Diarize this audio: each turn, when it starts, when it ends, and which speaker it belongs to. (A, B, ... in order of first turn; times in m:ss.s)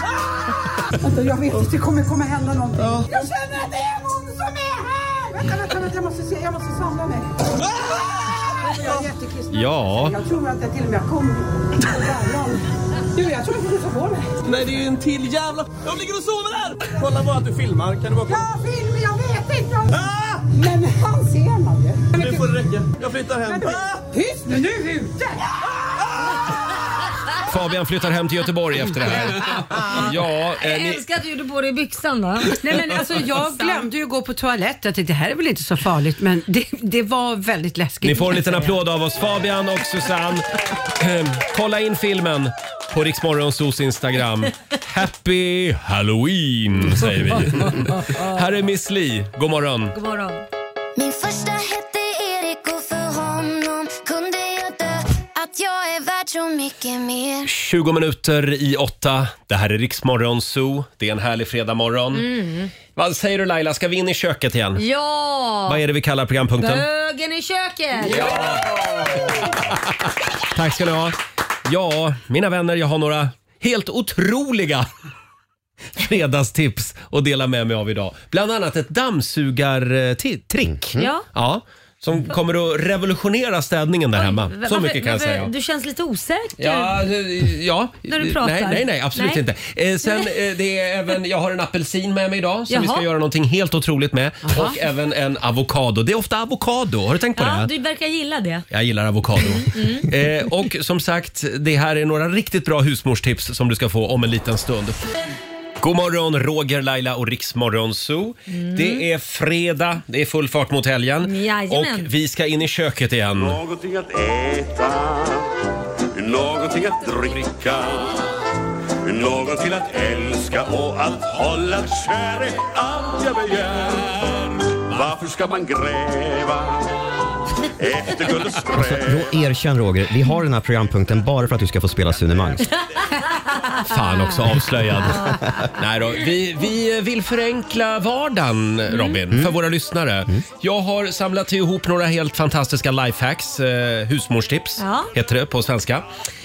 0:01.0-0:12.6 A
0:02.8-0:03.1 B
0:09.5-0:10.2 C
0:13.1-0:14.3 A
0:14.4-0:18.5 B
0:18.3-0:22.5 A
0:20.0-0:20.3 B
0:22.1-0:24.1 B
0:23.4-0:25.5 A
0:27.5-0:31.0 C
0:30.6-0:33.9 D
0:32.6-0:38.8 E
0:38.0-0:50.0 C
0:49.9-0:50.4 D
0:51.0-0:57.5 F
0:57.5-1:02.3 C
1:02.1-1:02.7 D
1:03.0-1:04.8 C
1:04.8-1:05.8 D
1:05.7-1:06.9 C
1:06.6-1:08.4 D
1:08.0-1:09.0 C
1:10.5-1:14.9 C
1:16.0-1:25.5 C
1:21.0-1:21.2 D
1:24.2-1:27.0 D
1:26.6-1:37.7 C
1:28.1-1:29.4 D
1:30.0-1:30.3 D
1:32.7-1:33.0 D
1:34.5-1:34.8 E
1:37.4-1:38.6 D
1:38.7-1:45.0 C
1:39.4-1:40.1 D
1:45.8-1:53.6 C
1:48.5-1:49.0 D
1:51.2-1:52.1 D
1:53.4-1:55.5 G
1:56.2-1:58.3 G
1:59.1-2:06.9 G
2:07.8-2:09.3 G
2:08.8-2:12.6 H
2:13.5-2:14.3 D
2:13.8-2:26.1 C
2:18.9-2:19.2 D
2:19.3-2:19.6 H
2:24.8-2:25.1 D